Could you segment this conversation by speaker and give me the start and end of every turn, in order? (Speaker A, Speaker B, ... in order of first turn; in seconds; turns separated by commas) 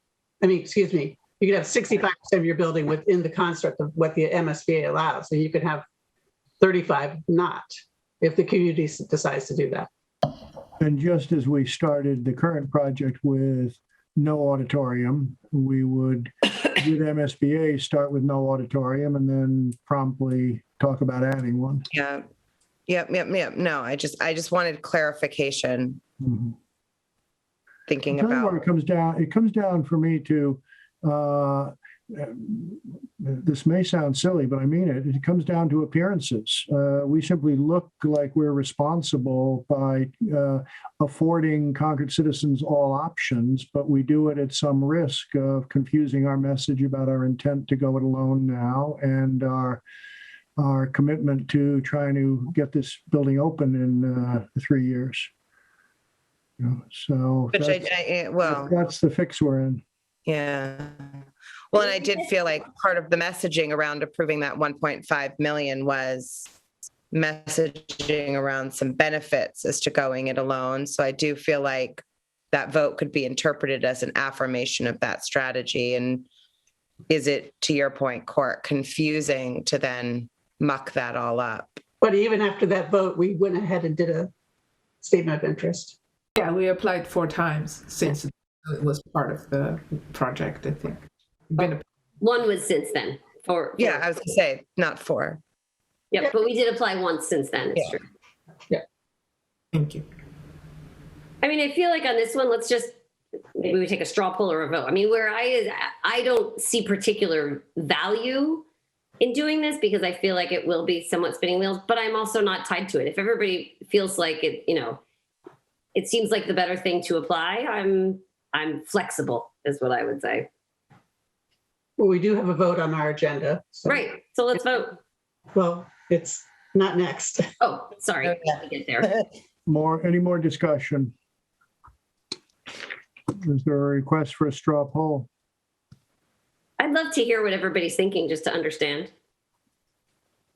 Speaker A: 0.4-5.8, Speaker A: 6.6-7.7, Speaker A: 8.2-9.9, Speaker B: 10.8-21.8, Speaker C: 21.9-22.2, Speaker C: 22.9-26.0, Speaker B: 26.2-26.6, Speaker C: 27.9-28.6, Speaker B: 28.1-49.8, Speaker B: 50.6-55.3, Speaker B: 56.6-57.9, Speaker C: 57.5-58.7, Speaker B: 58.4-59.8, Speaker C: 60.2-61.2, Speaker C: 61.7-66.5, Speaker C: 67.1-76.2, Speaker C: 77.1-81.8, Speaker A: 82.0-84.3, Speaker A: 85.0-86.0, Speaker D: 86.4-91.0, Speaker D: 91.5-91.8, Speaker E: 91.6-94.1, Speaker C: 93.8-95.4, Speaker E: 96.1-98.0, Speaker D: 99.7-100.0, Speaker E: 101.4-103.0, Speaker E: 103.6-108.7, Speaker E: 109.2-115.0, Speaker E: 116.0-120.5, Speaker A: 122.0-124.1, Speaker E: 123.9-125.0, Speaker A: 125.5-127.5, Speaker E: 127.6-129.2, Speaker B: 129.7-131.1, Speaker B: 133.3-135.3, Speaker E: 136.8-139.1